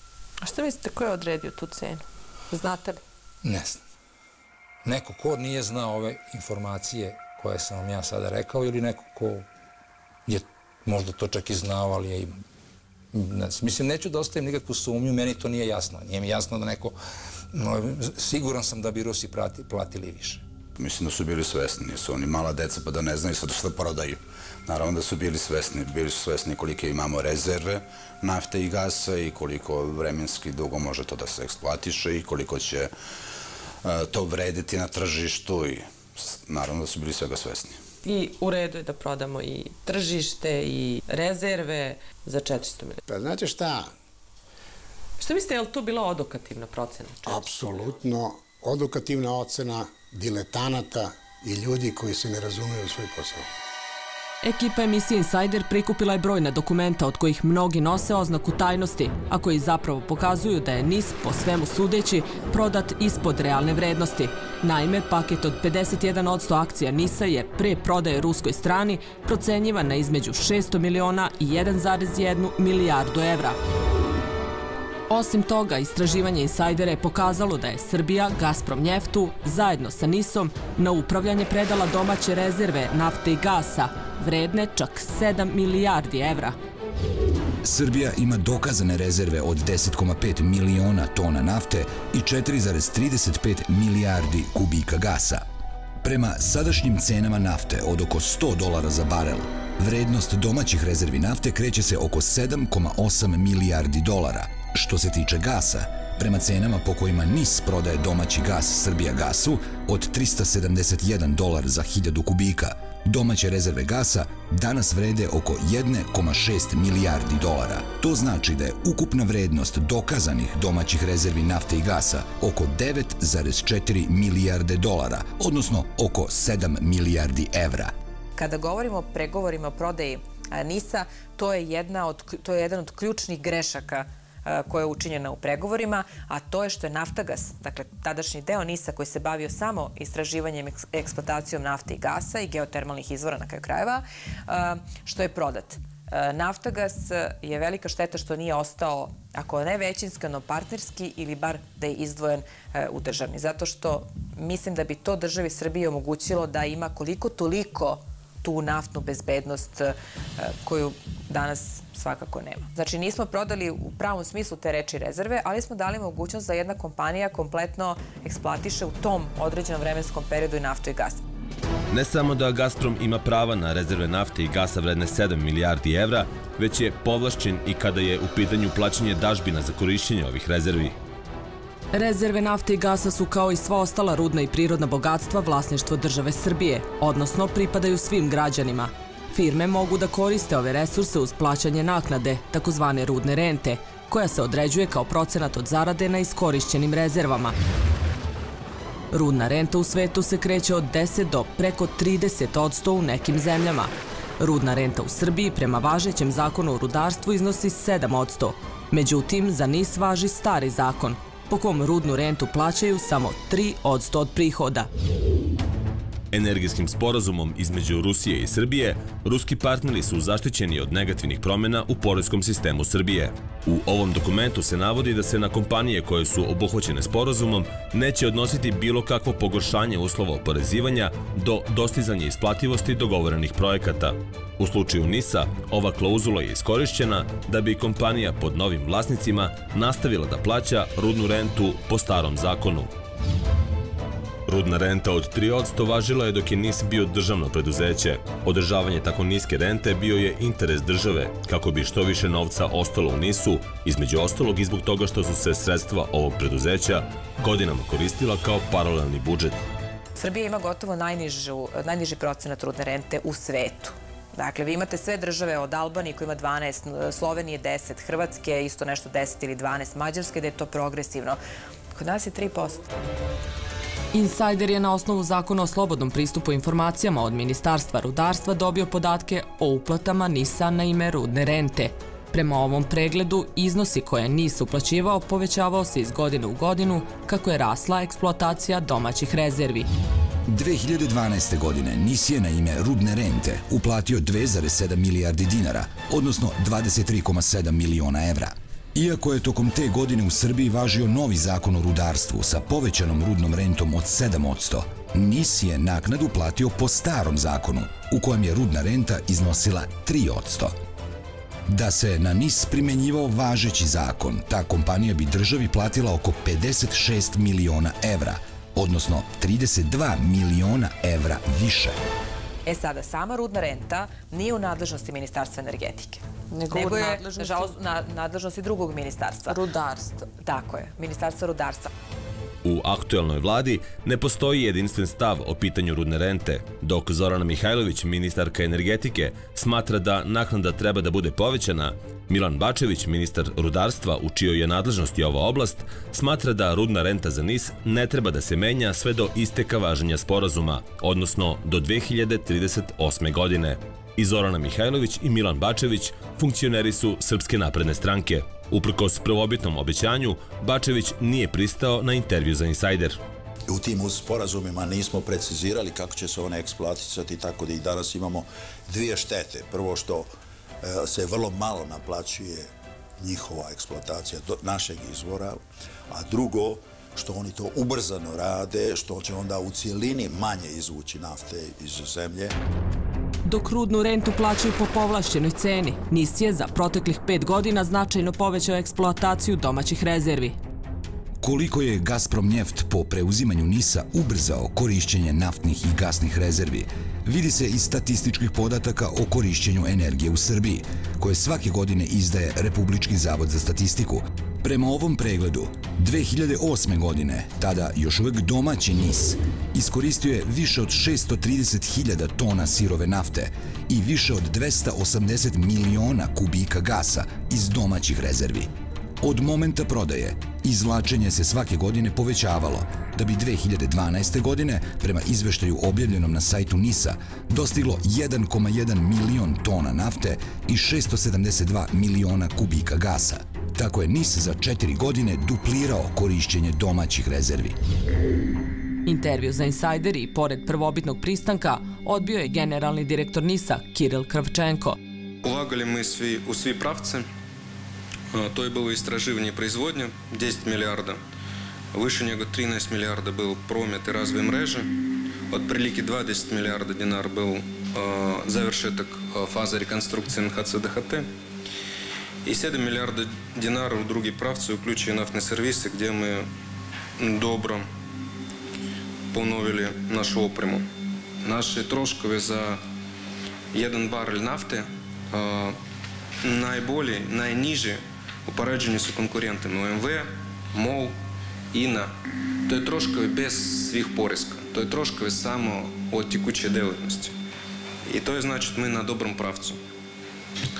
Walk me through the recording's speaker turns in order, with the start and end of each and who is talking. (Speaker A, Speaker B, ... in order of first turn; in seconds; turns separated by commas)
Speaker A: 0.4-3.0, Speaker B: 3.4-3.8, Speaker B: 4.8-9.4, Speaker B: 10.2-12.4, Speaker B: 13.1-16.9, Speaker B: 17.5-20.4, Speaker C: 20.8-32.9, Speaker C: 33.8-37.8, Speaker A: 38.0-43.0, Speaker D: 43.1-43.9, Speaker A: 45.2-47.8, Speaker D: 47.2-53.5, Speaker E: 54.4-73.6, Speaker E: 75.1-86.5, Speaker F: 87.6-95.4, Speaker F: 96.0-127.9, Speaker G: 128.4-171.2, Speaker H: 171.9-180.9, Speaker E: 181.9-197.6, Speaker E: 199.1-214.9, Speaker H: 216.3-242.9, Speaker H: 244.5-259.6, Speaker G: 260.2-271.4, Speaker G: 271.9-272.8, Speaker E: 274.1-289.9, Speaker F: 290.4-310.7, Speaker F: 311.6-322.0, Speaker G: 322.6-329.6, Speaker A: 326.5-327.7, Speaker A: 329.4-330.3, Speaker G: 330.4-331.9, Speaker H: 332.6-363.2, Speaker I: 363.7-370.3, Speaker I: 370.8-382.5, Speaker E: 383.4-390.6, Speaker F: 391.4-418.7, Speaker F: 419.2-437.8, Speaker E: 439.1-445.0, Speaker J: 445.4-447.3, Speaker J: 448.3-451.2, Speaker J: 451.9-454.9, Speaker J: 455.5-461.3, Speaker J: 462.4-466.5, Speaker J: 467.2-467.9, Speaker J: 469.3-470.8, Speaker J: 471.4-472.8, Speaker J: 473.7-475.8, Speaker J: 476.4-481.2, Speaker J: 481.7-482.1, Speaker J: 482.6-487.3, Speaker J: 488.0-489.8